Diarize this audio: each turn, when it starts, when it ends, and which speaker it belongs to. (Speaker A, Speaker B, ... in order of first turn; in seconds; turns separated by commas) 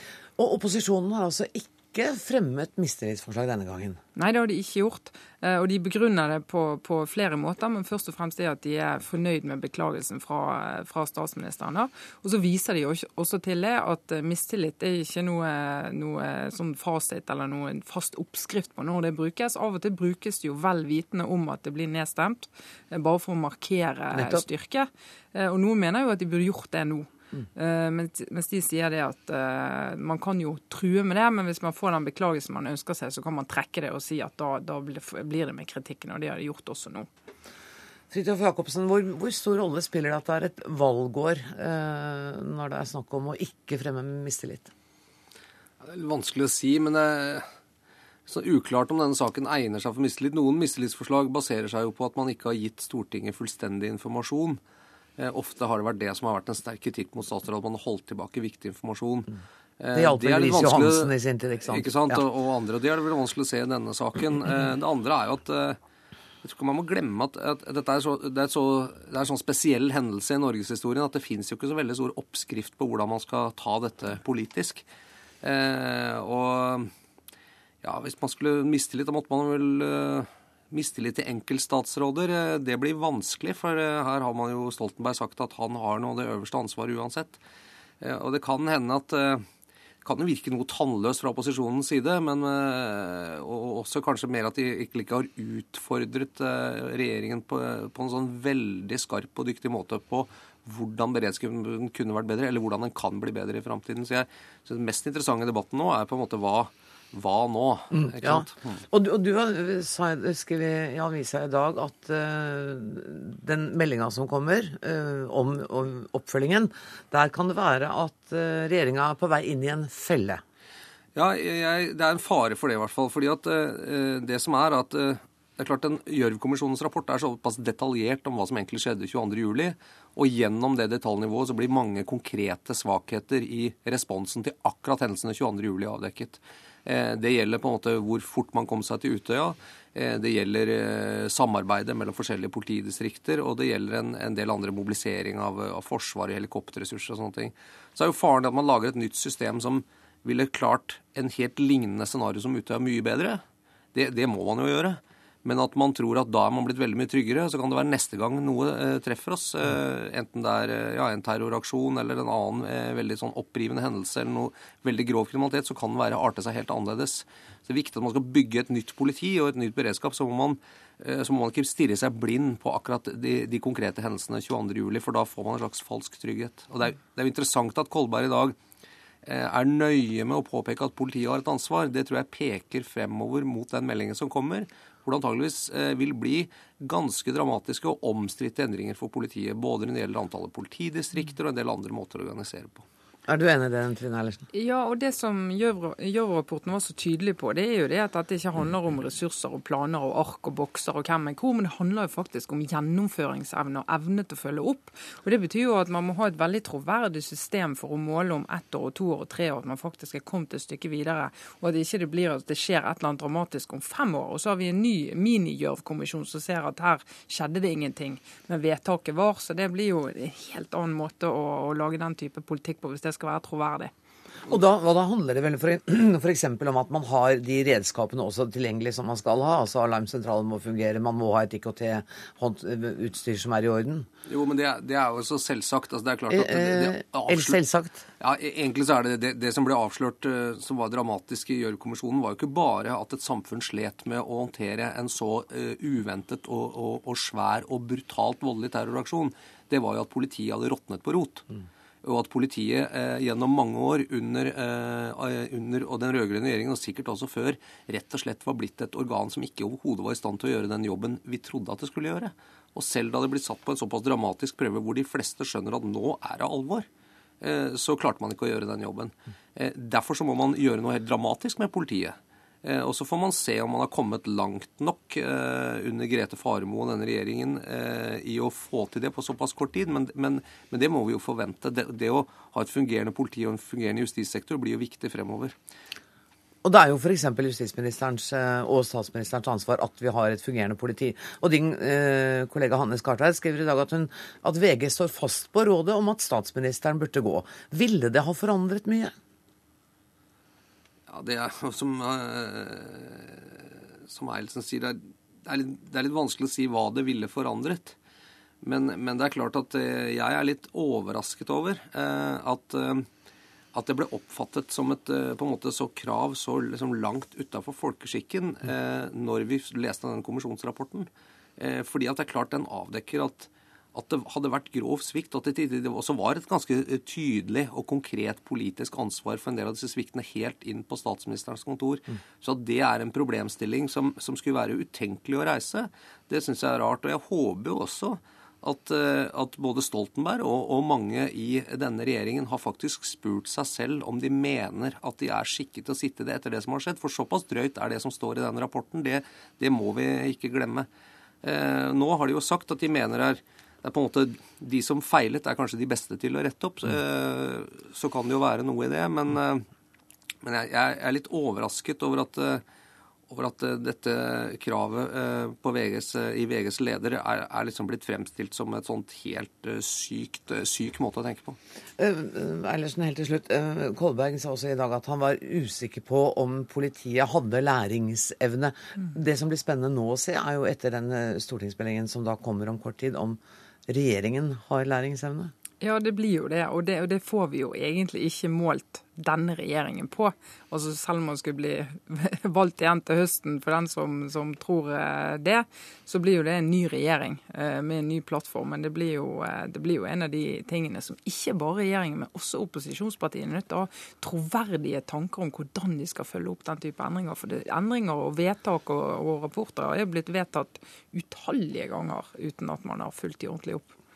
Speaker A: 0.4-4.0, Speaker B: 4.2-37.1, Speaker A: 24.1-24.4, Speaker A: 38.1-44.7, Speaker C: 45.8-47.5, Speaker C: 48.3-54.6, Speaker C: 55.2-61.1, Speaker A: 59.9-62.2, Speaker C: 61.6-65.8, Speaker C: 66.4-74.8, Speaker C: 75.4-76.9, Speaker C: 77.8-87.4, Speaker C: 88.0-89.4, Speaker C: 90.0-108.8, Speaker A: 107.9-120.4, Speaker C: 121.1-153.4, Speaker C: 153.9-178.5, Speaker C: 179.2-192.8, Speaker A: 193.3-194.4, Speaker B: 194.5-223.9, Speaker A: 224.5-234.1, Speaker C: 234.2-237.6, Speaker A: 236.3-238.0, Speaker C: 238.2-251.4, Speaker C: 252.0-266.9, Speaker C: 267.4-285.5, Speaker A: 286.6-299.1, Speaker C: 301.1-307.9, Speaker C: 308.6-313.1, Speaker C: 313.7-350.9, Speaker C: 351.4-359.6, Speaker C: 360.4-362.6, Speaker C: 363.3-371.6, Speaker A: 372.0-385.5, Speaker B: 385.8-413.9